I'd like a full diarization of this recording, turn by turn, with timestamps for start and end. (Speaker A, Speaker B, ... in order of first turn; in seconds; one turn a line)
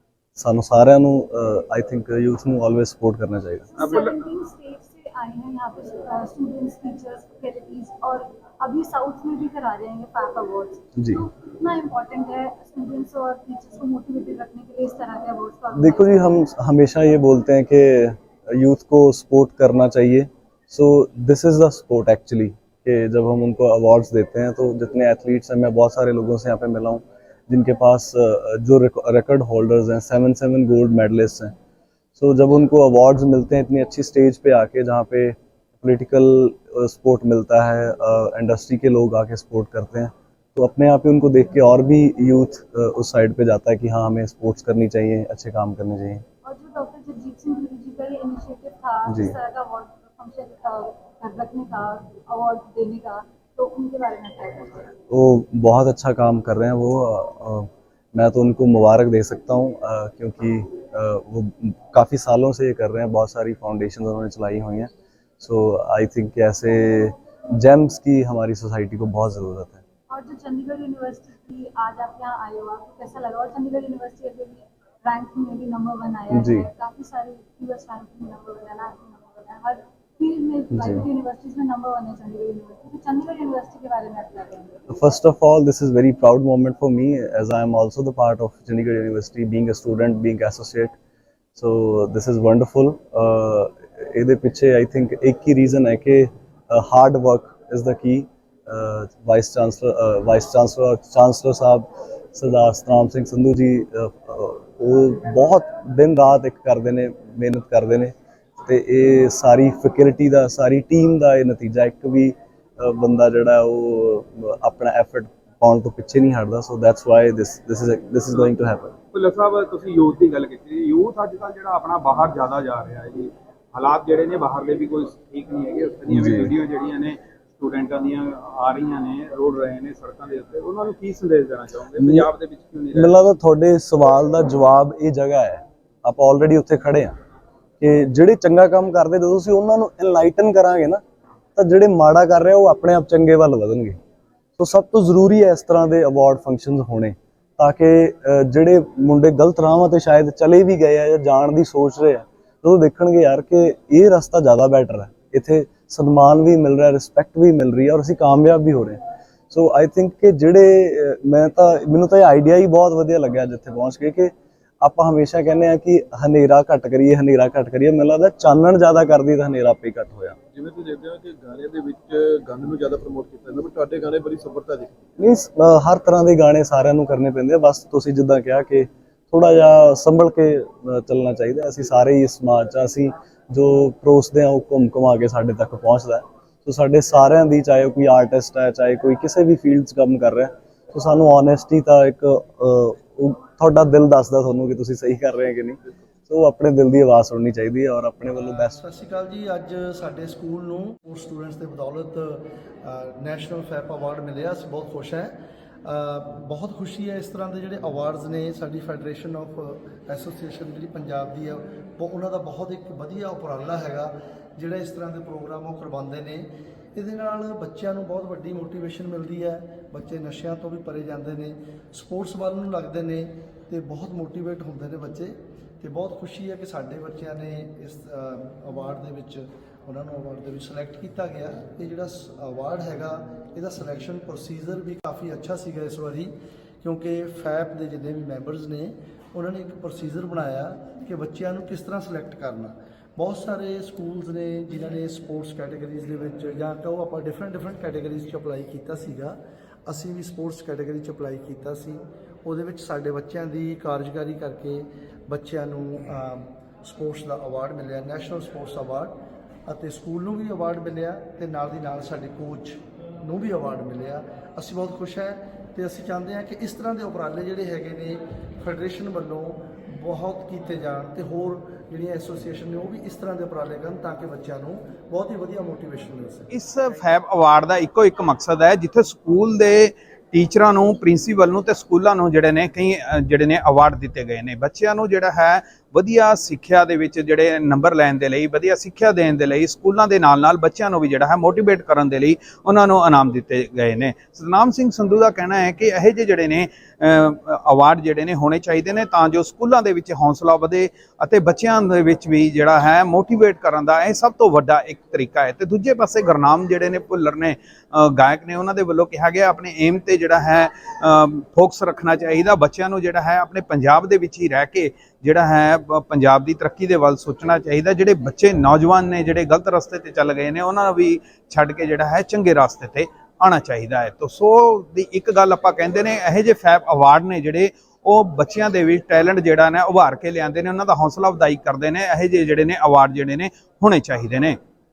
Speaker A: 0.4-3.7
Speaker B: 3.7-16.4
Speaker C: 3.8-4.2
Speaker A: 11.0-11.2
Speaker A: 15.7-31.5
Speaker A: 32.1-46.2
Speaker B: 46.4-54.9
Speaker A: 49.1-49.4
Speaker A: 55.1-69.8
Speaker B: 70.1-84.8
Speaker A: 76.3-76.7
Speaker A: 80.7-81.1
Speaker A: 84.9-91.0
Speaker A: 91.6-119.0
Speaker C: 119.1-133.2
Speaker A: 126.1-126.5
Speaker A: 132.0-132.3
Speaker A: 132.9-137.2
Speaker A: 137.8-141.0
Speaker A: 141.6-144.0
Speaker A: 144.6-170.4
Speaker D: 170.5-175.0
Speaker A: 175.2-198.8
Speaker E: 198.3-259.1
Speaker E: 259.7-276.5
Speaker C: 276.5-334.6